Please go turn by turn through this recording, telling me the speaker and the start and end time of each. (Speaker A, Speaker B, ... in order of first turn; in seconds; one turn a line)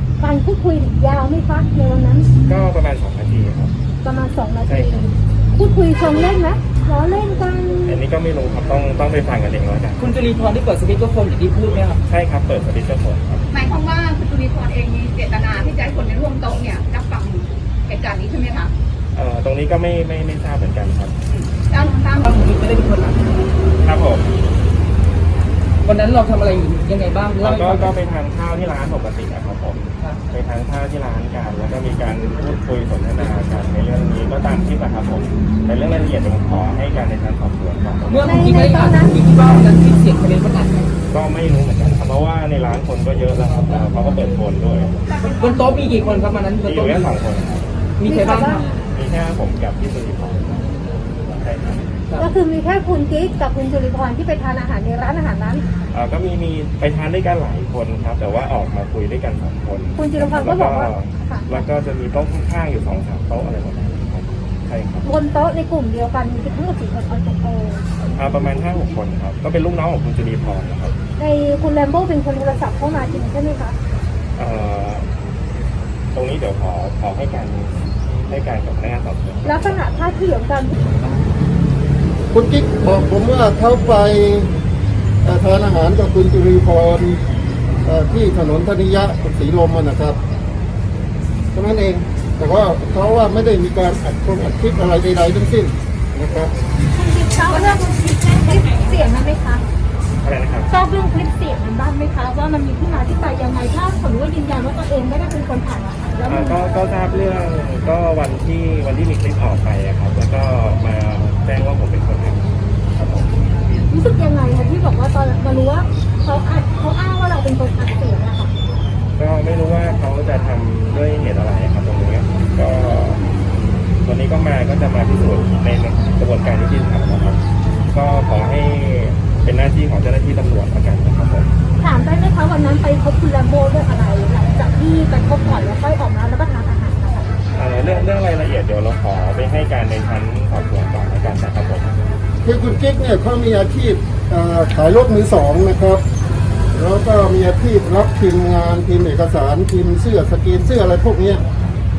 Speaker A: 0.2-2.3
Speaker B: 2.4-3.7
Speaker A: 4.0-8.0
Speaker B: 4.7-5.0
Speaker B: 7.8-10.0
Speaker C: 10.0-12.0
Speaker B: 12.0-13.5
Speaker D: 13.5-18.7
Speaker B: 19.1-21.1
Speaker D: 21.3-22.4
Speaker C: 22.2-23.4
Speaker B: 23.8-24.3
Speaker C: 25.9-27.9
Speaker B: 27.4-38.4
Speaker C: 38.1-40.9
Speaker A: 38.2-39.2
Speaker B: 41.1-44.9
Speaker D: 45.1-46.1
Speaker C: 45.4-47.1
Speaker B: 46.6-47.7
Speaker C: 48.0-48.6
Speaker A: 48.0-48.6
Speaker B: 48.9-50.6
Speaker B: 51.3-51.9
Speaker A: 52.2-55.6
Speaker B: 55.9-65.0
Speaker A: 60.0-61.6
Speaker A: 65.0-67.8
Speaker B: 68.1-70.9
Speaker A: 71.2-73.8
Speaker B: 74.4-75.0
Speaker B: 76.1-79.6
Speaker A: 79.4-80.7
Speaker E: 82.3-84.5
Speaker E: 85.2-87.2
Speaker E: 87.8-90.2
Speaker E: 91.5-96.5
Speaker A: 96.9-99.6
Speaker B: 100.2-100.7
Speaker A: 100.7-106.6
Speaker B: 106.3-112.4
Speaker B: 113.0-113.2
Speaker A: 113.9-118.5
Speaker B: 119.2-123.2
Speaker B: 124.0-127.4
Speaker B: 127.9-131.5
Speaker A: 131.8-137.3
Speaker B: 137.5-142.0
Speaker E: 142.4-146.0
Speaker E: 146.7-151.4